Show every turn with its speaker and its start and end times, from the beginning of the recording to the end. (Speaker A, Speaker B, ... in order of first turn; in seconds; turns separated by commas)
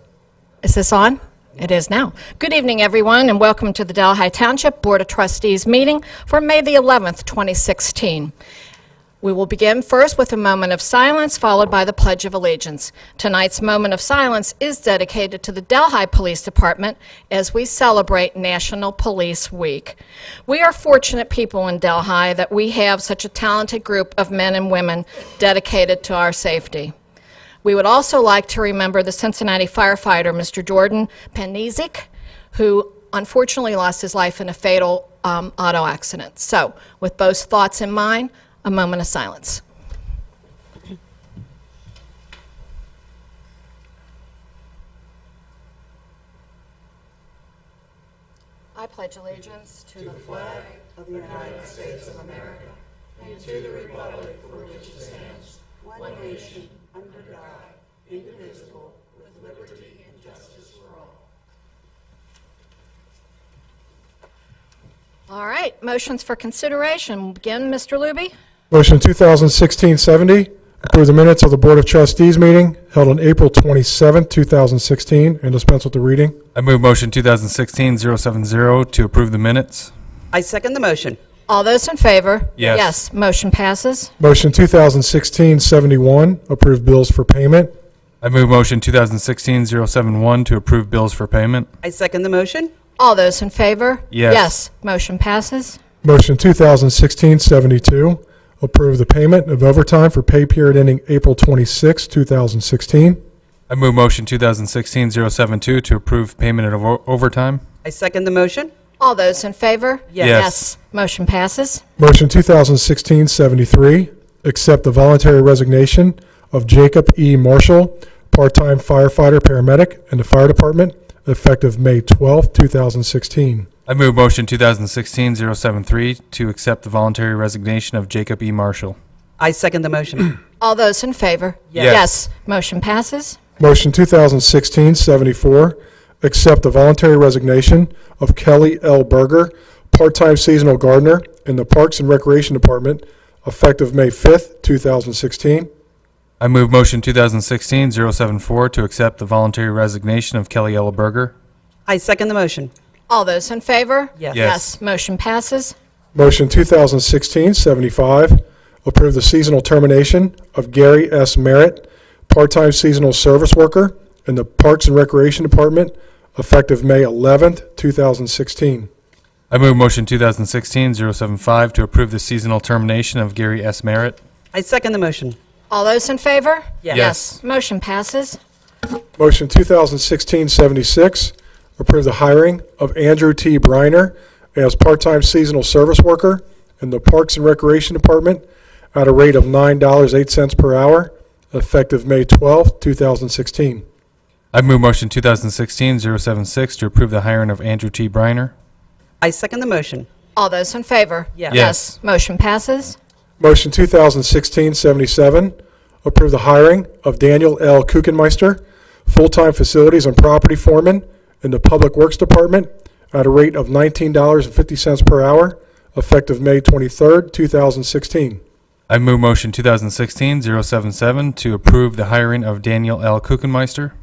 Speaker A: 0.6-8.3, Speaker A: 9.2-26.9, Speaker A: 27.6-39.6, Speaker A: 48.8-50.4, Speaker B: 50.9-60.9, Speaker A: 65.3-68.3, Speaker C: 68.7-76.4, Speaker D: 76.5-79.9, Speaker B: 80.3-81.2, Speaker A: 81.5-84.1, Speaker D: 82.6-82.9, Speaker C: 84.2-87.7, Speaker D: 88.2-91.7, Speaker B: 91.8-92.7, Speaker A: 93.0-95.8, Speaker D: 94.1-94.5, Speaker C: 96.0-103.2, Speaker D: 103.7-107.6, Speaker B: 107.8-108.7, Speaker A: 109.0-111.8, Speaker B: 110.1-110.5, Speaker D: 110.2-110.6, Speaker C: 112.0-123.7, Speaker D: 123.9-129.0, Speaker B: 129.4-130.4, Speaker A: 130.6-133.4, Speaker D: 131.8-132.1, Speaker C: 133.6-145.7, Speaker D: 146.4-151.3, Speaker B: 151.9-152.7, Speaker A: 153.1-155.8, Speaker B: 154.2-154.5, Speaker D: 154.3-154.7, Speaker C: 156.1-168.9, Speaker D: 169.5-174.2, Speaker B: 174.5-175.4, Speaker A: 175.7-178.4, Speaker D: 176.9-177.3, Speaker C: 179.2-193.8, Speaker D: 194.5-198.5, Speaker B: 199.2-200.1, Speaker A: 200.4-203.0, Speaker B: 201.4-201.7, Speaker D: 201.5-201.8, Speaker C: 203.4-218.4, Speaker D: 218.9-223.9